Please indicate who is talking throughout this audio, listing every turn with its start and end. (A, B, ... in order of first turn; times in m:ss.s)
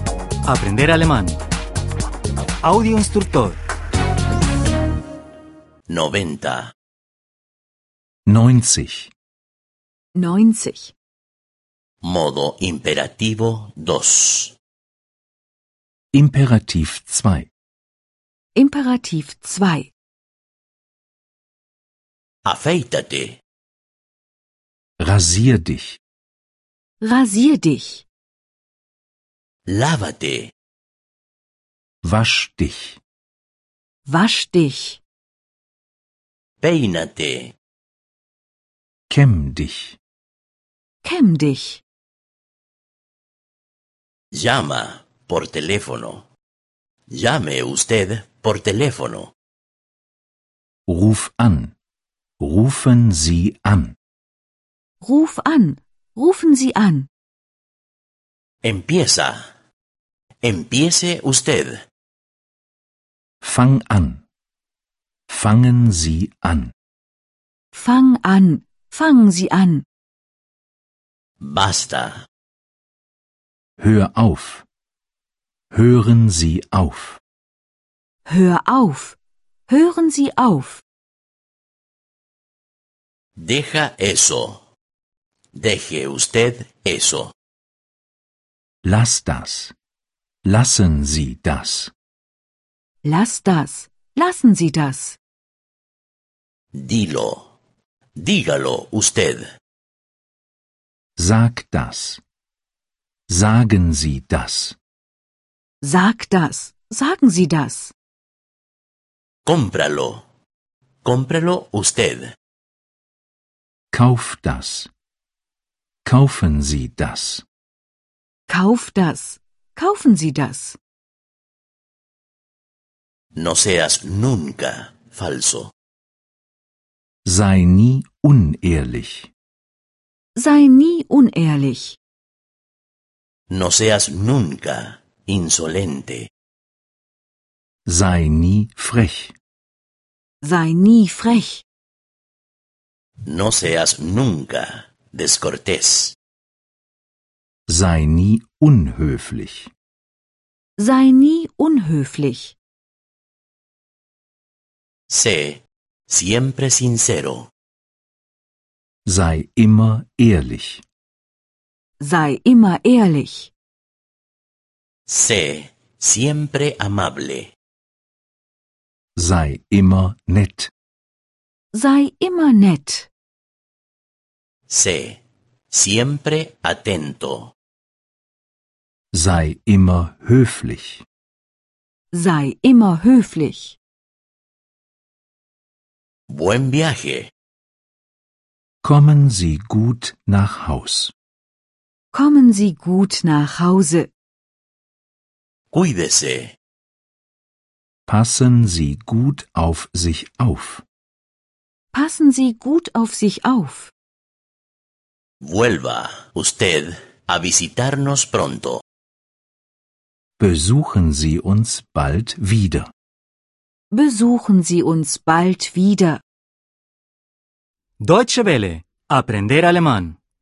0:00.4-0:01.4 A
0:02.6-0:03.6 A
0:05.9-0:06.7 B
0:08.2-0:09.1 C
0:10.2-0:10.9 D
0:12.0-0:14.5 B
0:16.1-0:17.5 C
0:18.5-0:19.9 D
0:22.4-0:23.4 B
0:25.0-0:26.0 C
0:27.0-0:28.0 D
0:29.7-0:30.5 B
0:32.0-0:33.0 C
0:34.0-0:35.0 D
0:36.6-0:37.5 B
0:39.1-0:40.0 C
0:41.0-0:41.8 D
0:44.3-0:46.2 B
0:47.1-0:49.3 B
0:50.9-0:51.7 C
0:52.4-0:54.0 C
0:55.0-0:57.1 D
0:58.6-0:59.4 B
1:00.4-1:01.8 B
1:03.4-1:04.2 C
1:05.3-1:06.7 C
1:07.7-1:09.8 D
1:11.4-1:12.2 B
1:13.8-1:14.6 C
1:15.7-1:17.2 C
1:18.3-1:20.8 D
1:23.4-1:24.6 B
1:25.5-1:27.3 B
1:28.8-1:29.7 C
1:30.4-1:31.9 C
1:33.0-1:35.2 D
1:36.7-1:37.5 B
1:38.2-1:39.4 B
1:41.2-1:42.2 C
1:43.3-1:44.8 C
1:45.8-1:47.9 D
1:49.4-1:50.2 B
1:51.0-1:52.3 B
1:53.9-1:54.9 C
1:56.0-1:57.4 C
1:58.5-2:00.8 D
2:03.4-2:05.7 B
2:07.2-2:09.3 C
2:10.4-2:12.0 D
2:13.5-2:16.3 B
2:17.8-2:19.3 C
2:20.4-2:21.6 D
2:23.2-2:26.1 B
2:27.7-2:29.7 C
2:30.8-2:32.6 D
2:35.1-2:37.5 B
2:39.0-2:40.8 C
2:42.0-2:43.5 D
2:45.1-2:47.5 B
2:49.2-2:50.7 C
2:51.7-2:53.1 D
2:54.7-2:55.2 B
2:55.7-2:57.5 B
2:59.1-3:01.0 C
3:02.1-3:03.8 D
3:06.3-3:07.3 B
3:08.8-3:11.1 C
3:12.1-3:14.1 D
3:15.7-3:16.5 B
3:18.1-3:20.8 C
3:21.9-3:23.9 D
3:25.4-3:28.8 B
3:30.4-3:32.9 C
3:33.9-3:36.2 D
3:38.0-3:40.2 A